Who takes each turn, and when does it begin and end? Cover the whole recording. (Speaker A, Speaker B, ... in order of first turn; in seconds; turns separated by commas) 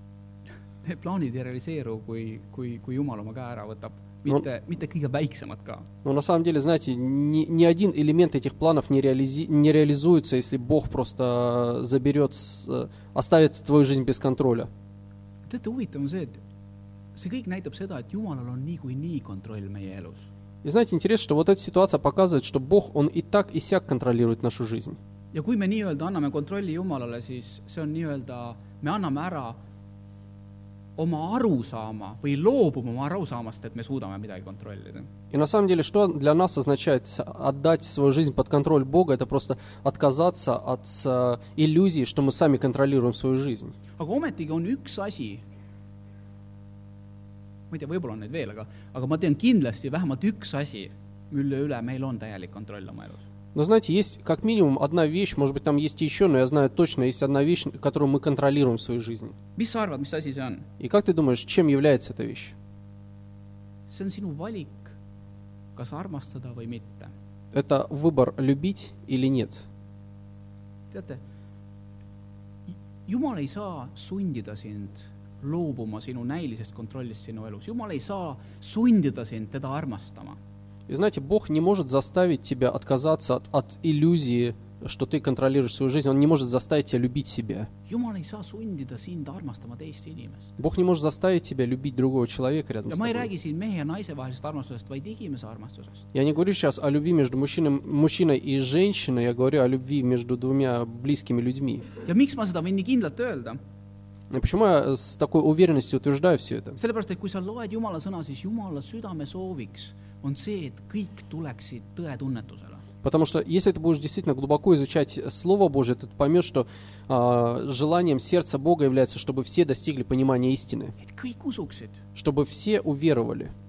Speaker A: 0.8-5.9, Speaker B: 6.0-14.7, Speaker A: 15.5-16.4, Speaker A: 17.1-20.3, Speaker B: 20.6-25.0, Speaker A: 25.3-29.6, Speaker A: 31.0-35.1, Speaker B: 35.3-43.8, Speaker A: 44.0-45.4, Speaker A: 47.7-53.2, Speaker B: 53.5-59.4, Speaker A: 59.6-60.7, Speaker B: 60.8-62.5, Speaker A: 63.9-65.0, Speaker A: 65.8-67.1, Speaker B: 67.5-69.7, Speaker A: 70.9-71.2, Speaker A: 72.7-80.4, Speaker B: 80.9-87.7, Speaker A: 87.9-90.5, Speaker B: 90.6-93.3, Speaker A: 92.9-96.0, Speaker B: 96.1-101.9, Speaker A: 102.1-103.6, Speaker B: 104.3-106.8, Speaker A: 106.8-112.8, Speaker B: 113.0-121.0, Speaker A: 121.0-122.0, Speaker B: 122.2-123.5